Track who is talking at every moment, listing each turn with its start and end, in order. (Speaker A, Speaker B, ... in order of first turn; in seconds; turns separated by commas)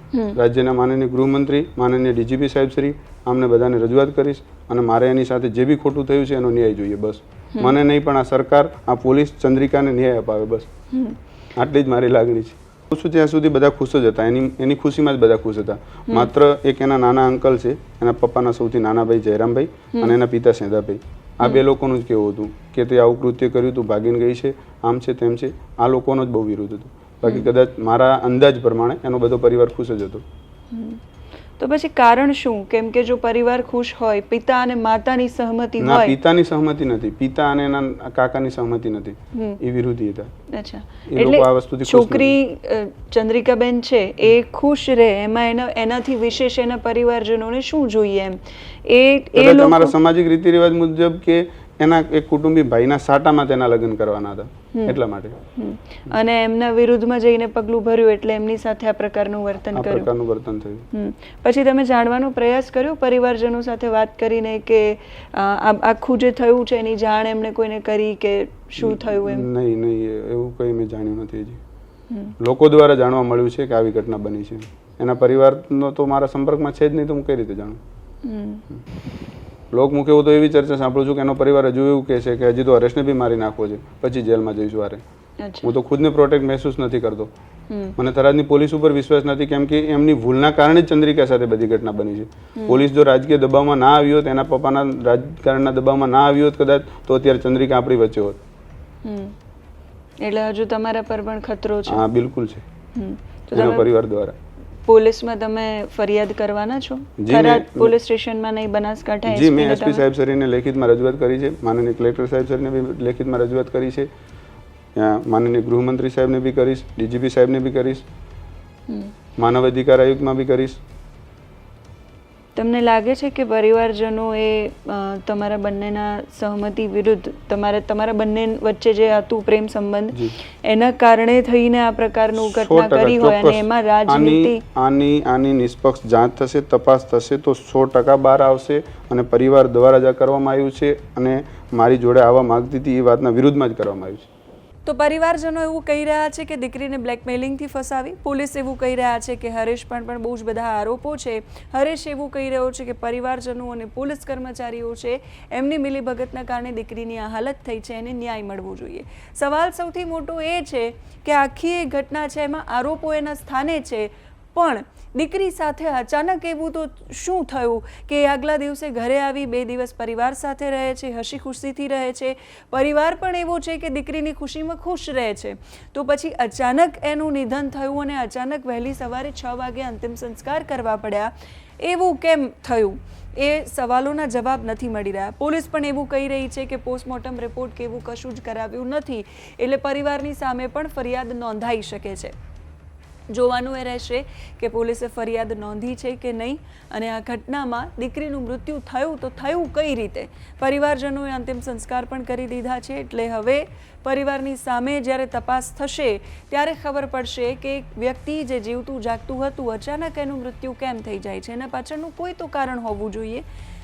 Speaker A: 0.3-10.7, Speaker A: 11.6-30.2, Speaker B: 30.7-31.0, Speaker B: 31.6-36.2, Speaker A: 35.8-40.3, Speaker B: 39.3-39.6, Speaker B: 40.5-49.9, Speaker A: 41.1-42.4, Speaker A: 49.4-55.4, Speaker B: 55.5-60.1, Speaker A: 59.7-60.9, Speaker B: 60.9-69.5, Speaker A: 68.8-71.6, Speaker A: 72.4-77.8, Speaker B: 78.2-78.6, Speaker A: 79.7-85.0, Speaker B: 85.4-85.7, Speaker A: 85.6-87.3, Speaker B: 87.7-87.9, Speaker A: 88.0-98.4, Speaker B: 92.5-92.8, Speaker B: 99.0-99.3, Speaker B: 100.2-102.0, Speaker A: 101.9-102.6, Speaker B: 102.9-103.9, Speaker A: 103.5-104.3, Speaker B: 104.8-110.0, Speaker A: 107.2-107.9, Speaker A: 109.2-114.1, Speaker A: 114.9-118.0, Speaker A: 119.4-120.8, Speaker B: 122.5-134.6, Speaker A: 132.3-144.3, Speaker B: 144.8-192.3, Speaker B: 193.3-213.4